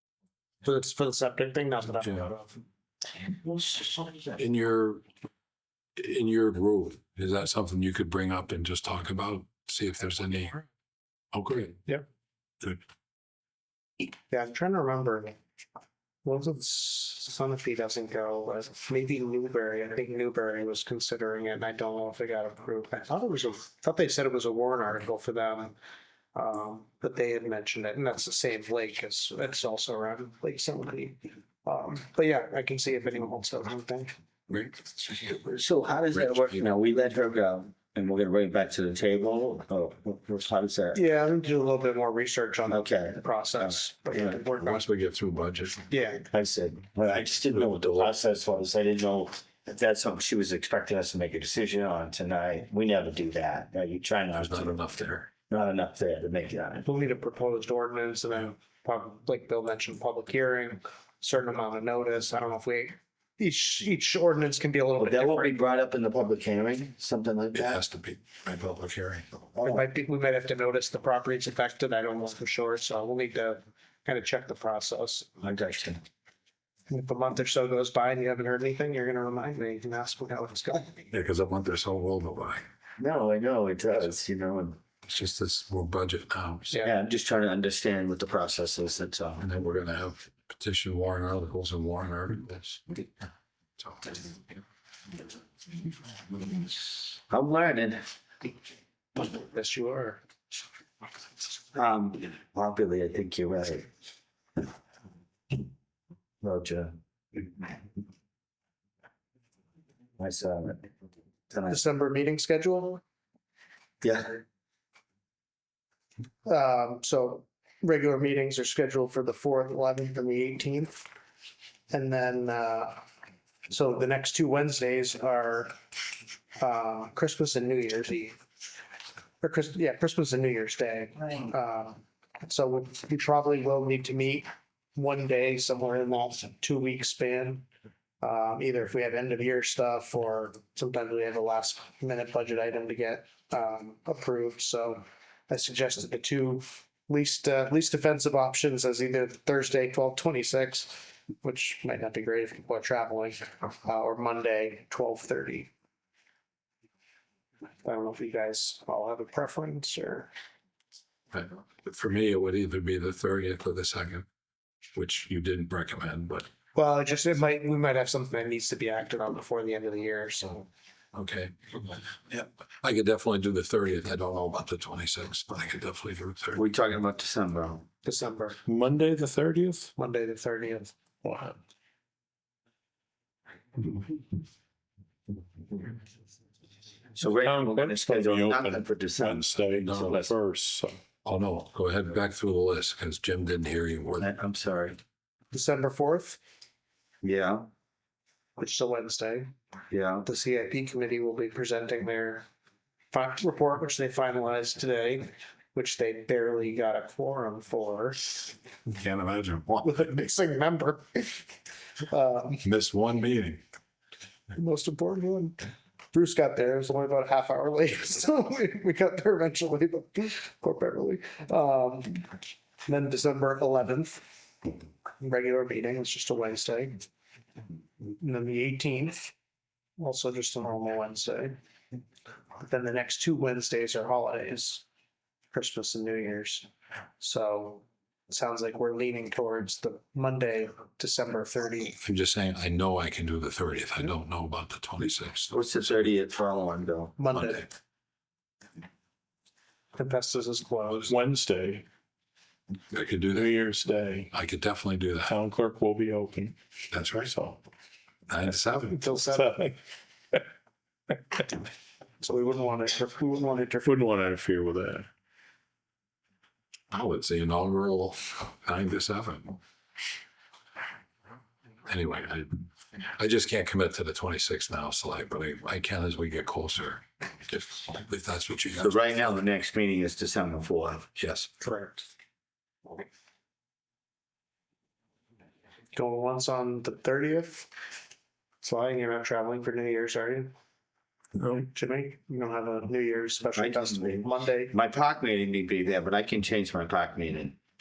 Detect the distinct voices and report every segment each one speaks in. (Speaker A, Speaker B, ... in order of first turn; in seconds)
Speaker A: 0.6-2.5, 14.3-15.3, 16.2-25.8, 26.3-34.1, 41.0-44.8, 45.9-46.2, 56.9-65.5, 69.6-75.3, 76.9-81.1, 99.3-100.2, 111.7-113.0, 116.5-121.1, 121.9-123.0, 123.7-125.7, 126.6-128.4, 129.4-137.7, 138.2-155.7, 157.8-160.3, 166.8-170.7, 178.0-178.6, 180.0-180.9, 195.5-196.4, 198.6-199.5, 200.2-202.4, 203.1-208.4, 209.8-211.5, 212.1-212.6, 214.6-222.2, 222.9-224.2, 225.2-227.0, 228.1-229.3, 230.0-231.6, 232.6-234.8, 235.5-236.7, 237.2-242.0, 247.2-247.7, 250.0-251.0, 258.9-259.5, 262.2-264.0, 281.6-282.1, 285.9-287.7, 288.6-290.5, 291.7-294.7
Speaker B: 2.0-2.3, 4.3-5.0, 6.0-10.6, 11.3-11.9, 34.5-35.3, 36.1-36.7, 44.5-46.0, 47.4-48.1, 54.3-55.3, 67.5-69.3, 81.1-82.6, 85.1-86.8, 89.4-93.0, 93.8-94.2, 161.3-164.2, 164.9-166.5, 171.1-171.7, 172.8-176.6, 191.2-194.2, 208.9-210.2, 212.6-213.6, 242.0-245.5, 247.3-247.7, 250.9-251.1, 252.9-253.5, 254.3-255.3, 256.9-257.3, 258.3-259.0, 266.9-269.6, 271.9-272.6, 273.1-279.1, 281.1-281.5
Speaker C: 3.6-4.2, 35.3-41.0, 42.7-44.4, 46.3-56.9, 65.0-67.8, 69.5-69.8, 75.4-76.0, 83.0-84.8, 86.8-89.4, 97.1-98.0, 101.7-103.9, 106.4-107.7, 110.2-110.9, 111.5-111.8, 114.0-114.4, 176.6-177.8, 187.2-190.3, 194.2-195.0, 197.2-197.7, 199.9-200.2, 245.5-247.2, 278.8-281.1, 293.6-297.6
Speaker D: 178.7-179.9, 181.2-181.6, 187.2-190.9, 251.1-251.8, 253.3-254.3, 255.2-256.6, 257.1-257.6, 259.0-259.8, 263.8-265.1, 291.4-291.6